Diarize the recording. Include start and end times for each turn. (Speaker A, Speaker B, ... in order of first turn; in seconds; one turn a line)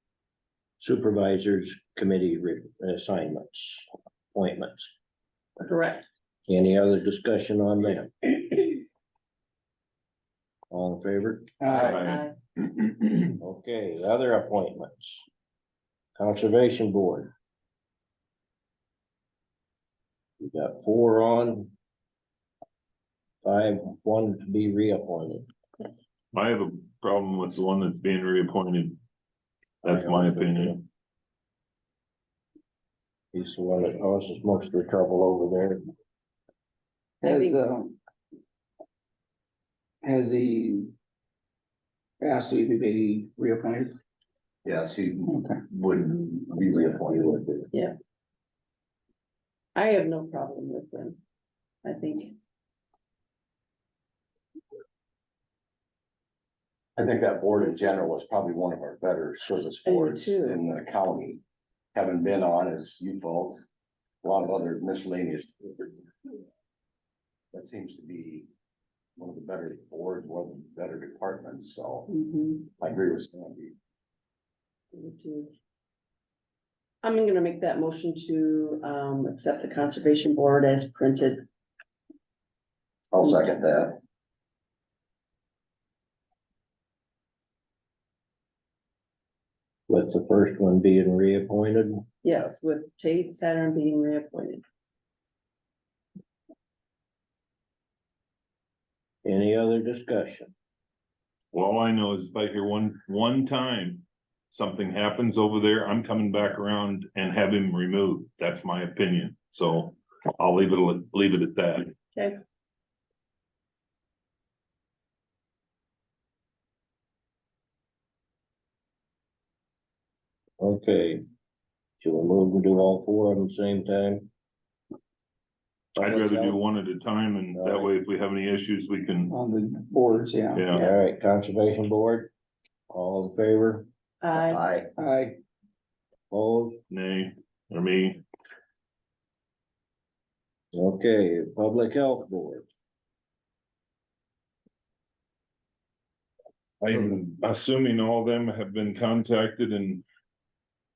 Speaker A: 0.8-4.9
Speaker B: 5.6-6.0
Speaker A: 6.5-8.4
Speaker A: 10.7-11.5
Speaker C: 11.6-12.0
Speaker B: 11.7-12.3
Speaker D: 11.8-13.3
Speaker A: 13.4-15.2
Speaker A: 16.1-17.3
Speaker A: 20.4-21.7
Speaker A: 23.4-25.4
Speaker D: 26.3-29.0
Speaker D: 29.8-30.8
Speaker A: 29.8-30.8
Speaker A: 33.3-35.8
Speaker B: 37.2-37.6
Speaker C: 37.2-38.0
Speaker C: 40.0-40.9
Speaker C: 42.2-43.9
Speaker E: 44.6-47.6
Speaker C: 45.3-45.6
Speaker B: 49.7-51.2
Speaker B: 51.8-52.3
Speaker E: 57.0-61.4
Speaker B: 59.8-60.6
Speaker E: 61.9-63.7
Speaker E: 64.2-65.9
Speaker E: 67.5-68.5
Speaker E: 69.2-72.1
Speaker B: 72.1-72.7
Speaker E: 72.8-73.7
Speaker B: 74.9-75.5
Speaker B: 77.0-81.4
Speaker E: 83.1-84.0
Speaker A: 89.9-92.0
Speaker B: 92.2-94.6
Speaker A: 99.2-100.5
Speaker D: 101.5-111.9
Speaker A: 120.6-121.2
Speaker A: 122.0-124.3
Speaker A: 126.0-126.6
Speaker D: 126.0-129.3
Speaker A: 127.5-127.9
Speaker C: 129.3-130.7
Speaker D: 130.5-130.9
Speaker A: 130.7-132.3
Speaker A: 132.9-133.9
Speaker B: 134.2-134.6
Speaker E: 134.3-134.9
Speaker C: 135.0-135.4
Speaker A: 136.3-136.8
Speaker D: 136.9-138.2
Speaker A: 140.7-142.6
Speaker D: 146.8-150.0
Speaker E: 146.9-147.2